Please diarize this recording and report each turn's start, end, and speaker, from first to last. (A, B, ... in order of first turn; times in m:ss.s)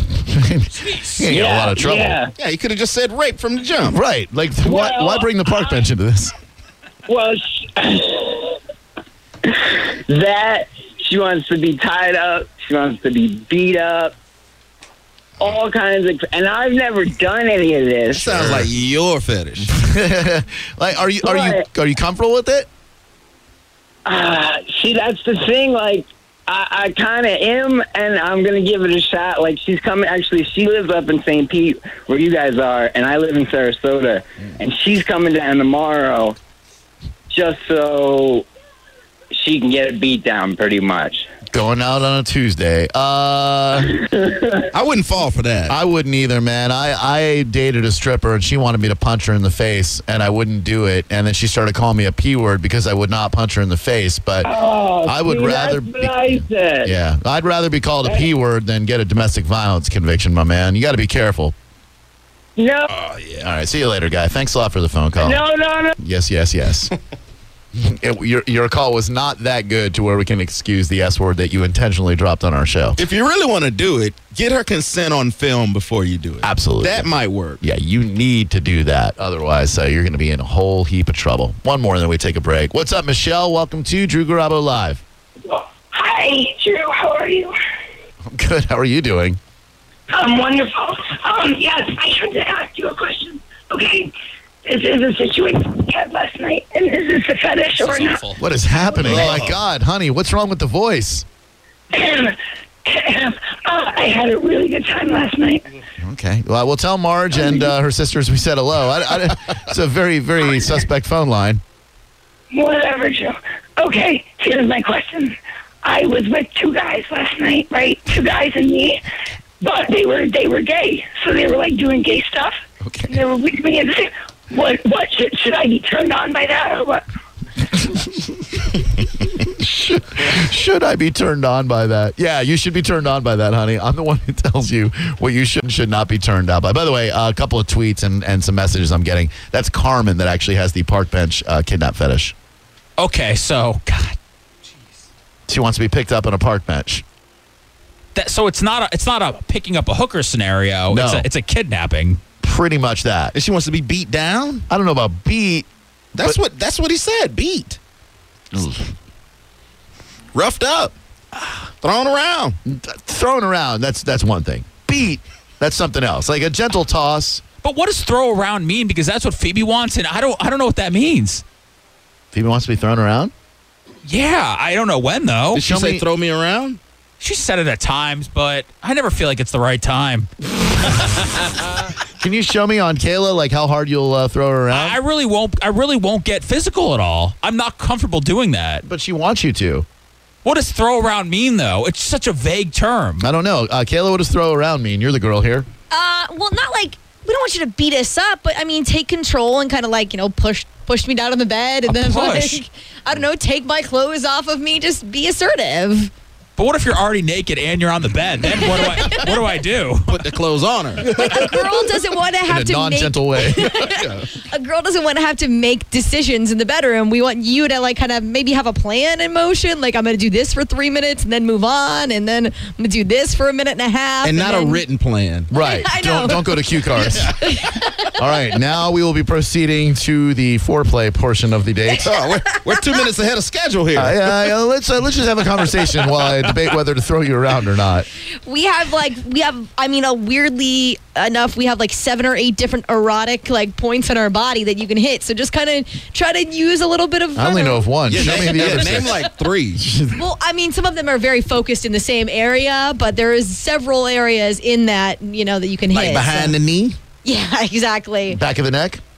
0:00.2-0:02.2 A
0:00.7-0:01.2 B
0:01.3-0:02.3 C
0:02.4-0:04.0 D
0:03.9-0:06.3 A
0:04.6-0:05.3 C
0:07.1-0:08.6 C
0:09.5-0:14.1 C
0:15.4-0:18.5 C
0:18.1-0:19.8 D
0:18.2-0:18.7 A
0:19.7-0:22.7 A
0:21.2-0:21.7 C
0:24.1-0:36.4 C
0:37.3-0:38.5 C
0:39.3-0:41.3 C
0:41.5-0:44.0 A
0:44.7-0:45.8 D
0:45.7-0:54.5 A
0:54.4-0:57.0 C
0:55.0-1:01.6 A
0:58.0-0:58.3 C
1:02.6-1:02.9 C
1:03.4-1:05.4 A
1:05.2-1:06.0 C
1:06.0-1:06.9 A
1:07.8-1:13.0 A
1:13.0-1:17.6 D
1:16.4-1:25.0 A
1:25.5-1:27.6 E
1:28.3-1:29.4 A
1:30.1-1:34.1 E
1:34.6-1:38.2 E
1:37.8-1:38.4 B
1:38.4-1:41.3 A
1:38.9-1:39.6 D
1:41.9-1:45.7 E
1:46.0-1:51.6 A
1:52.5-1:59.0 E
1:59.6-2:07.0 E
2:02.8-2:03.2 A
2:09.5-2:22.4 A
2:23.0-2:24.2 B
2:25.5-2:27.0 A
2:28.2-2:32.2 B
2:30.9-2:31.3 A
2:32.4-2:33.3 A
2:33.3-2:34.7 D
2:34.7-2:35.7 A
2:36.2-2:37.8 D
2:38.5-2:38.9 A
2:40.3-2:40.9 D
2:41.8-2:42.6 D
2:42.6-2:47.4 A
2:47.6-2:51.4 B
2:52.3-2:53.3 A
2:54.0-2:55.6 B
2:55.6-2:56.8 D
2:55.6-2:56.0 A
2:57.2-3:00.3 B
3:02.2-3:05.0 A
3:04.7-3:08.8 B
3:08.8-3:09.9 A
3:10.4-3:13.3 B
3:13.2-3:15.7 A
3:15.9-3:26.1 F
3:21.9-3:22.6 B
3:26.6-3:30.3 B
3:28.5-3:29.3 F
3:30.1-3:31.2 D
3:31.0-3:31.7 A
3:31.1-3:44.9 F
3:32.5-3:33.9 A
3:44.2-3:45.5 D
3:45.5-3:47.3 A
3:45.6-3:48.2 F
3:48.2-3:52.1 A
3:52.0-3:54.5 D
3:52.4-3:53.0 F
3:54.0-3:58.1 A
3:58.4-4:09.3 F
4:07.4-4:09.2 A
4:08.1-4:09.9 D
4:09.8-4:10.2 A
4:10.1-4:16.6 F
4:15.9-4:17.0 D
4:17.2-4:18.4 F
4:18.3-4:19.0 A